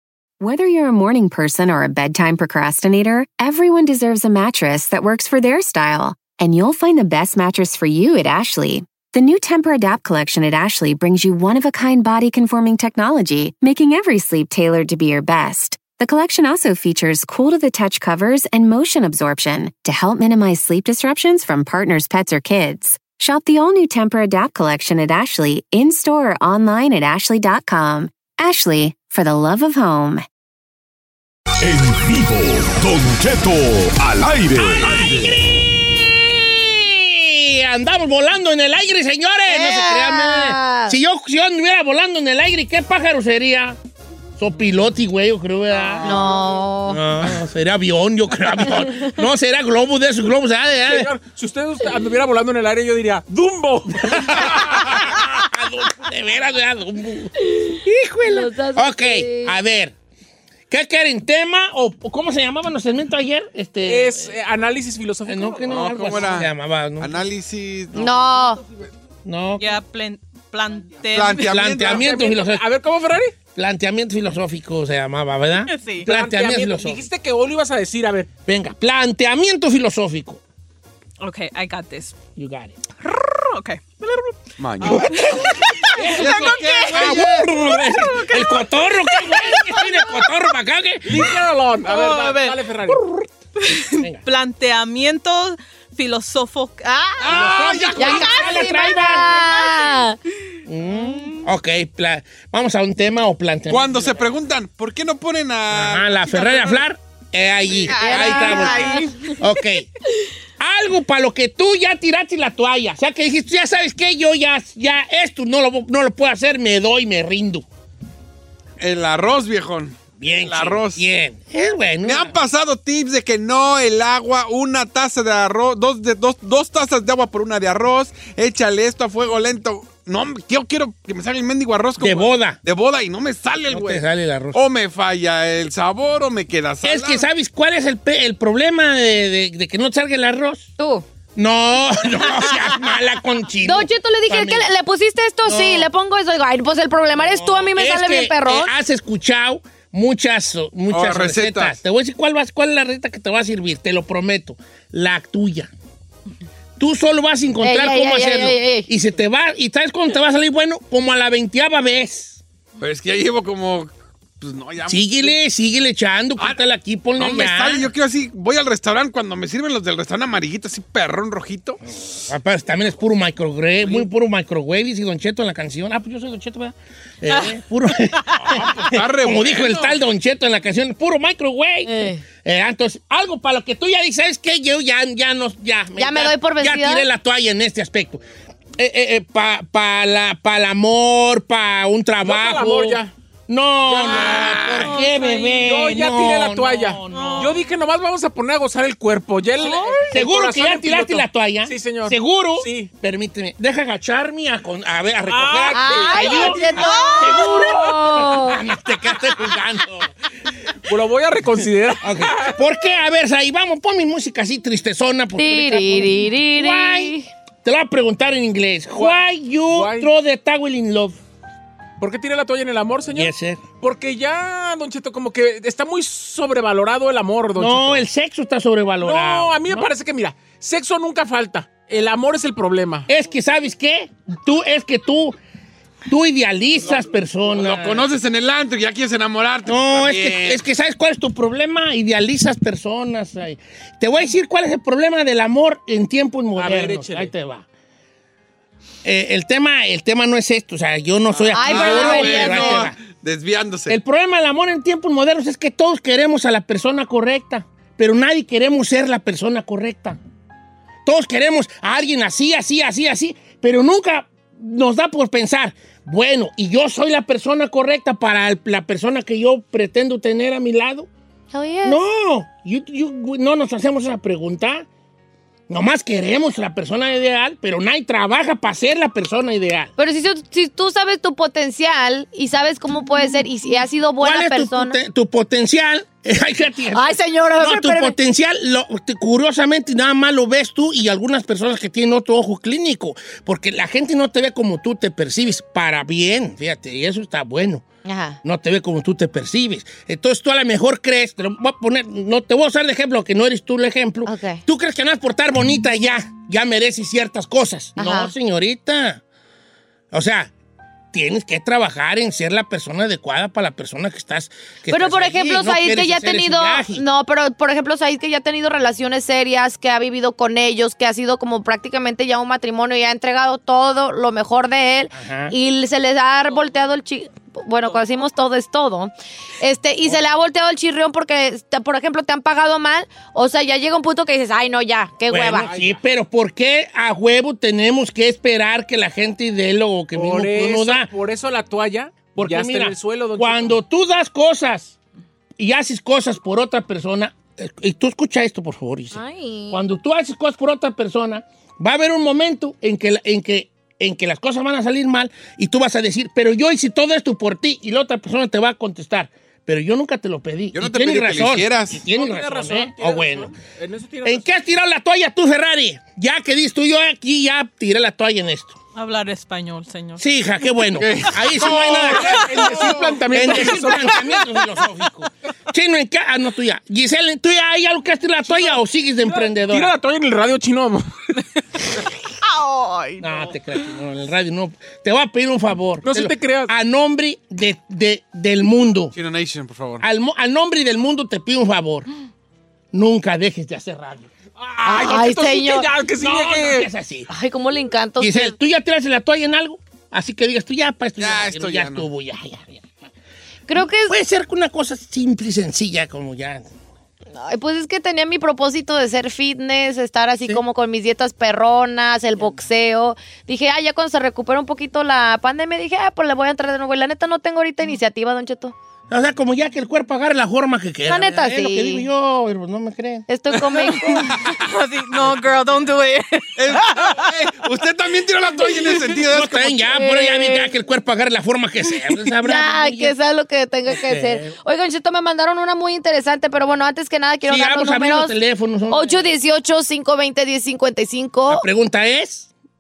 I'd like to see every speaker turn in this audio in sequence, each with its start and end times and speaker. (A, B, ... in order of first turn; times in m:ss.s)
0:00.4-0:30.2 A
0:31.6-0:35.3 B
0:35.5-0:43.8 C
0:39.5-0:41.0 D
0:44.4-0:46.3 C
0:45.7-0:46.2 E
0:46.0-0:47.0 D
0:46.9-0:51.1 C
0:50.9-0:54.5 E
0:54.0-1:00.0 C
0:58.3-0:59.6 D
1:00.7-1:04.4 C
1:03.9-1:06.4 E
1:05.3-1:07.2 C
1:05.7-1:06.5 F
1:07.0-1:08.2 F
1:07.9-1:08.6 D
1:09.2-1:09.8 C
1:09.6-1:11.6 G
1:11.0-1:12.0 F
1:11.4-1:12.6 C
1:11.8-1:13.4 E
1:13.6-1:17.0 C
1:15.6-1:16.1 G
1:16.0-1:18.3 E
1:18.5-1:20.4 C
1:21.2-1:22.2 G
1:22.4-1:22.8 C
1:23.0-1:24.4 G
1:24.6-1:25.1 F
1:24.9-1:30.4 G
1:24.9-1:25.2 C
1:25.9-1:31.4 C
1:26.2-1:27.5 F
1:31.0-1:33.0 E
1:31.9-1:32.6 G
1:33.6-1:39.9 G
1:37.3-1:38.0 E
1:37.3-1:39.3 C
1:38.0-1:40.2 D
1:40.7-1:44.3 C
1:40.9-1:41.5 G
1:43.7-1:46.8 F
1:45.7-1:49.9 C
1:47.9-1:49.2 D
1:48.0-1:49.4 G
1:50.6-1:57.7 C
1:58.8-2:01.0 F
2:00.2-2:02.4 C
2:02.0-2:17.2 F
2:12.0-2:12.6 C
2:13.7-2:14.6 C
2:16.8-2:20.7 C
2:20.8-2:21.0 D
2:21.4-2:24.7 C
2:23.6-2:28.7 D
2:25.4-2:25.9 C
2:27.2-2:35.7 C
2:30.9-2:31.7 F
2:36.8-2:42.4 C
2:37.6-2:38.9 D
2:42.8-2:45.4 F
2:44.9-2:47.9 C
2:47.2-2:51.8 F
2:51.9-3:08.2 C
2:57.3-2:57.5 G
2:58.5-3:00.0 F
3:01.9-3:02.2 D
3:06.0-3:07.1 D
3:08.8-3:17.5 C
3:12.2-3:13.1 E
3:13.9-3:22.9 E
3:14.0-3:14.9 F
3:14.7-3:15.5 G
3:17.1-3:17.7 G
3:19.5-3:20.1 G
3:20.1-3:30.1 C
3:25.3-3:26.7 E
3:25.7-3:28.6 D
3:26.2-3:27.7 G
3:30.9-3:32.6 E
3:32.0-3:41.2 C
3:35.4-3:37.3 D
3:39.7-3:40.1 E
3:42.0-3:43.3 E
3:43.1-3:43.6 C
3:43.8-3:48.1 E
3:47.6-3:49.9 C
3:49.0-3:53.1 E
3:53.1-3:55.4 C
3:56.1-3:58.1 C
3:57.5-4:00.6 F
3:59.7-4:07.7 C
4:06.6-4:07.3 E
4:09.0-4:13.0 C
4:11.3-4:14.0 F
4:11.5-4:12.9 D
4:13.9-4:20.2 C
4:21.0-4:31.1 C
4:31.5-4:32.0 D
4:31.8-4:34.9 C
4:35.7-4:39.9 C
4:40.0-4:45.0 D
4:44.2-4:57.8 C
4:46.9-4:48.2 D
4:58.0-4:58.4 D
4:58.4-5:09.2 C
5:04.3-5:04.6 D
5:08.0-5:08.3 D
5:10.1-5:10.5 C
5:11.1-5:17.0 C
5:14.9-5:35.7 D
5:25.1-5:25.6 C
5:35.3-5:41.1 C
5:35.6-5:36.0 E
5:40.1-5:43.8 E
5:42.4-5:45.0 C
5:45.6-6:03.5 C
5:49.1-5:49.8 D
6:00.7-6:02.0 F
6:02.1-6:04.5 E
6:04.2-6:08.8 C
6:08.9-6:10.2 G
6:10.2-6:19.9 C
6:11.0-6:13.5 F
6:11.6-6:14.2 E
6:18.5-6:18.7 E
6:19.2-6:21.0 E
6:22.4-6:23.8 G
6:23.2-6:29.1 C
6:26.0-6:26.7 E
6:29.1-6:30.0 F
6:30.0-6:32.1 C
6:32.9-6:34.3 C
6:34.7-6:36.9 E
6:34.8-6:35.2 C
6:35.0-6:35.9 D
6:36.2-6:37.3 C
6:37.3-6:38.6 D
6:38.2-6:42.9 C
6:41.2-6:42.1 F
6:43.7-6:44.2 D
6:44.0-6:46.7 C
6:47.3-6:58.8 D
6:59.1-7:03.3 C
7:01.1-7:02.1 D
7:03.3-7:04.4 D
7:03.7-7:07.3 G
7:06.6-7:09.8 F
7:09.3-7:13.1 C
7:09.9-7:10.7 D
7:12.4-7:18.4 D
7:13.9-7:14.5 C
7:17.4-7:19.3 C
7:18.9-7:21.6 D
7:21.5-7:22.5 C